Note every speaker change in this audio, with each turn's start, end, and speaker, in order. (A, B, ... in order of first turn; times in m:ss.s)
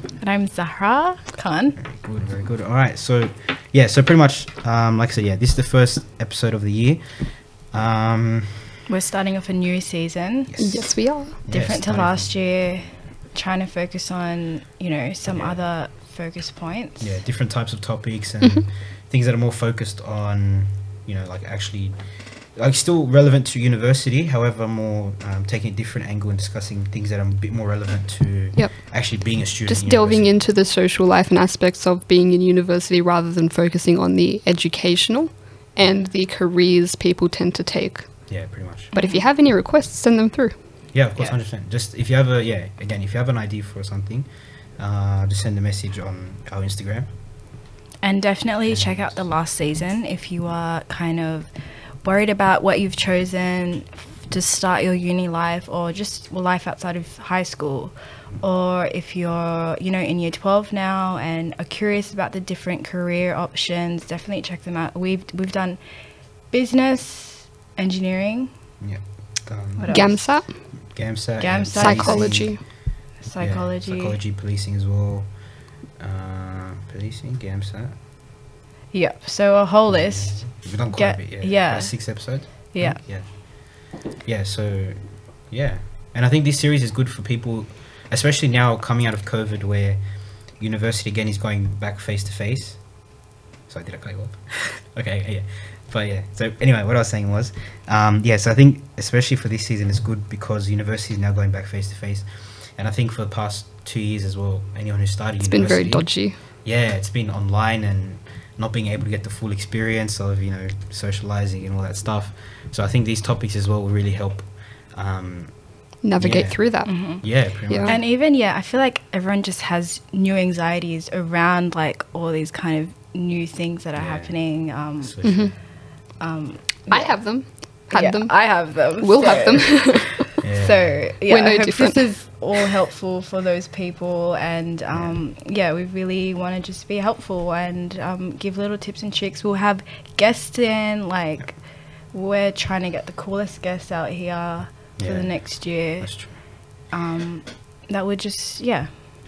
0:00.2-0:01.8 A
0:01.8-0:08.8 B
0:08.9-0:10.5 A
0:10.5-0:12.3 B
0:10.6-0:11.4 C
0:11.5-0:17.2 A
0:15.3-0:15.6 B
0:17.0-0:22.0 B
0:22.6-0:30.4 B
0:29.6-0:38.1 C
0:38.3-0:38.9 B
0:39.0-0:39.3 A
0:39.0-0:40.6 C
0:40.9-0:44.3 B
0:44.8-0:47.1 B
0:48.0-0:51.5 A
0:48.7-0:49.1 B
0:52.0-1:05.8 A
1:06.5-1:08.5 A
1:08.8-1:10.3 B
1:09.8-1:10.4 A
1:09.9-1:10.5 C
1:10.9-1:12.5 B
1:11.4-1:12.5 A
1:11.8-1:12.6 C
1:13.2-1:14.2 A
1:13.4-1:15.3 B
1:16.0-1:18.0 B
1:18.9-1:23.0 A
1:19.9-1:30.0 B
1:30.6-1:32.8 B
1:33.7-1:55.5 B
1:45.4-1:46.4 C
1:56.0-1:56.9 C
1:56.2-1:58.0 B
1:56.8-1:57.3 A
1:57.7-1:57.9 C
1:57.8-2:05.2 A
2:04.0-2:04.4 B
2:05.0-2:05.5 B
2:05.2-2:05.5 C
2:06.2-2:07.2 A
2:06.9-2:10.3 C
2:07.9-2:21.6 A
2:10.4-2:11.0 B
2:11.3-2:12.1 C
2:14.9-2:15.2 B
2:22.1-2:26.3 A
2:25.0-2:26.3 B
2:26.9-2:29.0 A